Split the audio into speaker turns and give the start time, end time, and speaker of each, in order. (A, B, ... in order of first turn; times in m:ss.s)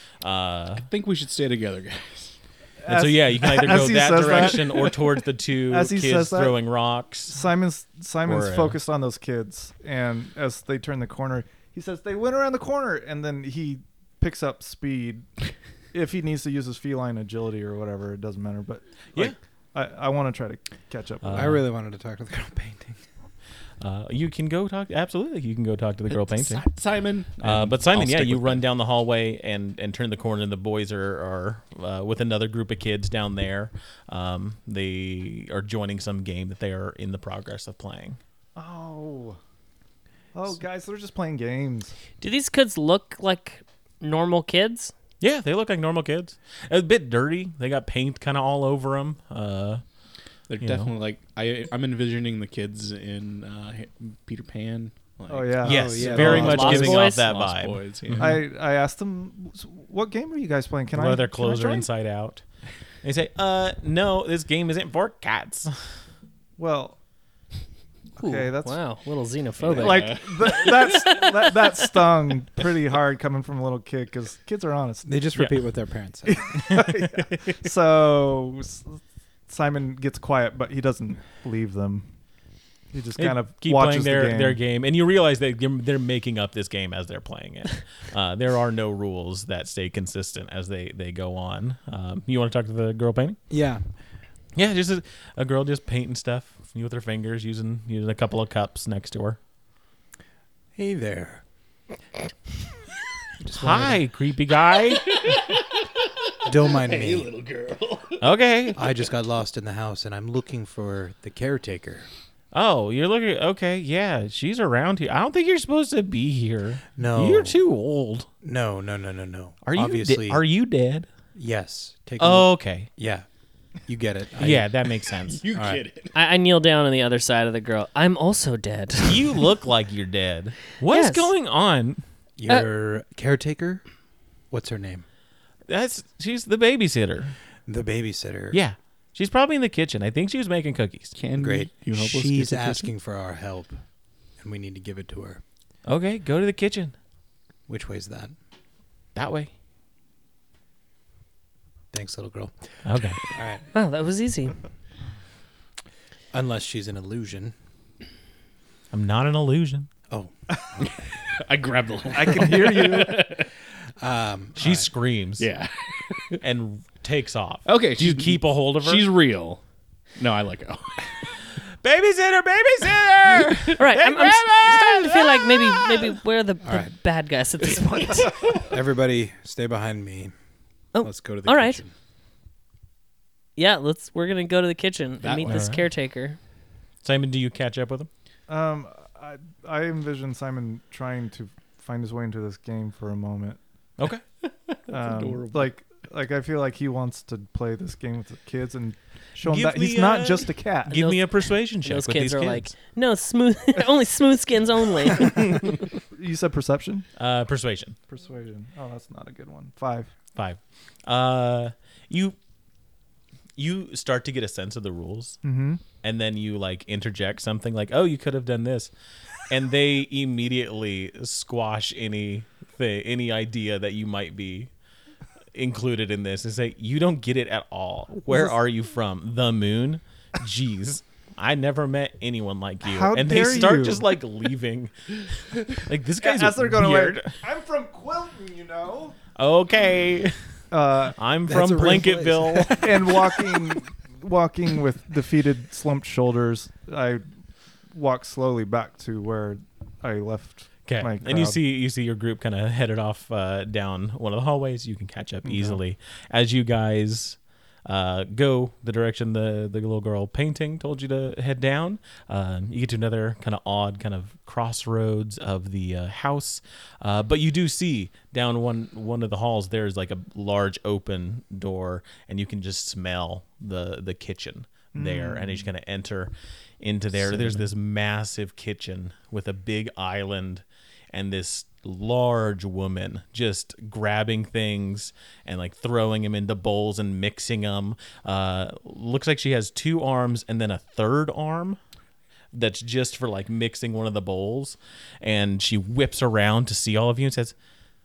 0:00.2-0:00.9 A
0:00.8-0:02.4 B
0:02.8-0:05.0 C
0:02.9-0:07.4 A
0:05.7-0:06.6 C
0:07.3-0:15.3 C
0:08.2-0:08.8 A
0:15.9-0:21.6 C
0:21.2-0:21.6 A
0:21.3-0:23.0 D
0:23.8-0:26.6 A
0:26.1-0:28.6 B
0:27.4-0:38.2 A
0:38.5-0:39.4 C
0:40.3-0:41.9 C
0:42.2-0:44.9 E
0:45.2-0:49.8 A
0:50.5-0:58.4 B
0:50.6-0:50.9 A
0:55.3-0:56.5 C
0:55.6-0:58.4 A
0:55.6-0:56.8 D
0:56.2-0:57.2 E
0:58.2-1:01.9 C
1:00.9-1:02.4 A
1:03.0-1:06.0 A
1:06.6-1:07.0 C
1:08.2-1:08.8 C
1:08.2-1:11.6 E
1:09.6-1:11.1 B
1:09.8-1:15.2 C
1:15.0-1:16.4 D
1:16.2-1:22.1 C
1:16.7-1:17.6 A
1:22.9-1:24.6 C
1:23.2-1:33.4 A
1:33.5-1:33.8 D
1:34.5-1:39.4 A
1:40.8-1:41.4 D
1:43.4-1:44.0 D
1:43.5-1:45.4 A
1:45.0-1:48.2 B
1:46.4-1:47.3 D
1:48.2-1:48.8 A
1:48.8-1:52.1 D
1:52.5-1:58.3 A
1:57.0-1:57.6 D
1:58.4-2:00.4 D
1:59.6-2:01.1 A
2:01.3-2:03.2 D
2:02.2-2:02.9 A
2:03.8-2:04.7 D
2:04.4-2:05.4 A
2:05.2-2:06.2 B
2:05.5-2:05.8 D
2:06.1-2:09.4 E
2:09.0-2:12.0 A
2:10.9-2:11.3 E
2:12.4-2:13.8 D
2:14.5-2:15.0 D
2:15.7-2:17.4 A
2:17.7-2:18.6 D
2:18.5-2:21.1 A
2:21.1-2:22.9 B
2:21.3-2:23.8 D
2:24.4-2:25.4 D
2:25.8-2:27.0 A
2:27.7-2:28.3 D
2:29.1-2:29.5 A
2:31.9-2:32.7 D
2:32.8-2:33.2 A
2:33.2-2:33.6 D
2:33.7-2:34.6 E
2:36.3-2:37.5 D
2:38.9-2:39.9 A
2:41.2-2:43.5 B
2:42.1-2:43.2 C
2:44.0-2:44.9 D
2:44.6-2:45.5 A
2:45.4-2:46.4 B
2:46.4-2:49.1 A
2:47.6-2:49.6 B
2:50.2-2:51.4 B
2:51.8-2:56.1 A
2:53.8-2:58.5 E
2:56.6-2:56.9 D
2:58.5-3:00.3 D
3:00.9-3:01.8 E
3:01.0-3:01.9 D
3:03.6-3:06.4 E
3:05.2-3:05.7 B
3:05.5-3:05.8 A
3:07.0-3:08.1 A
3:08.5-3:13.6 C
3:14.4-3:15.7 B
3:14.9-3:21.1 C
3:19.4-3:22.7 A
3:20.9-3:25.6 E
3:26.1-3:27.0 C
3:27.2-3:28.0 A
3:28.1-3:30.1 C
3:30.4-3:32.4 A
3:33.6-3:35.4 A
3:35.4-3:35.8 C
3:36.0-3:44.7 A
3:45.5-3:57.4 A
3:48.3-3:48.6 C
3:52.8-3:54.1 C
3:56.2-3:59.2 C
3:59.4-4:00.4 A
4:00.7-4:01.2 C
4:01.2-4:03.0 A
4:01.5-4:03.8 D
4:02.8-4:07.2 C
4:07.9-4:11.6 C
4:10.8-4:51.8 A
4:15.4-4:15.8 C
4:34.9-4:35.7 C
4:52.5-4:57.5 A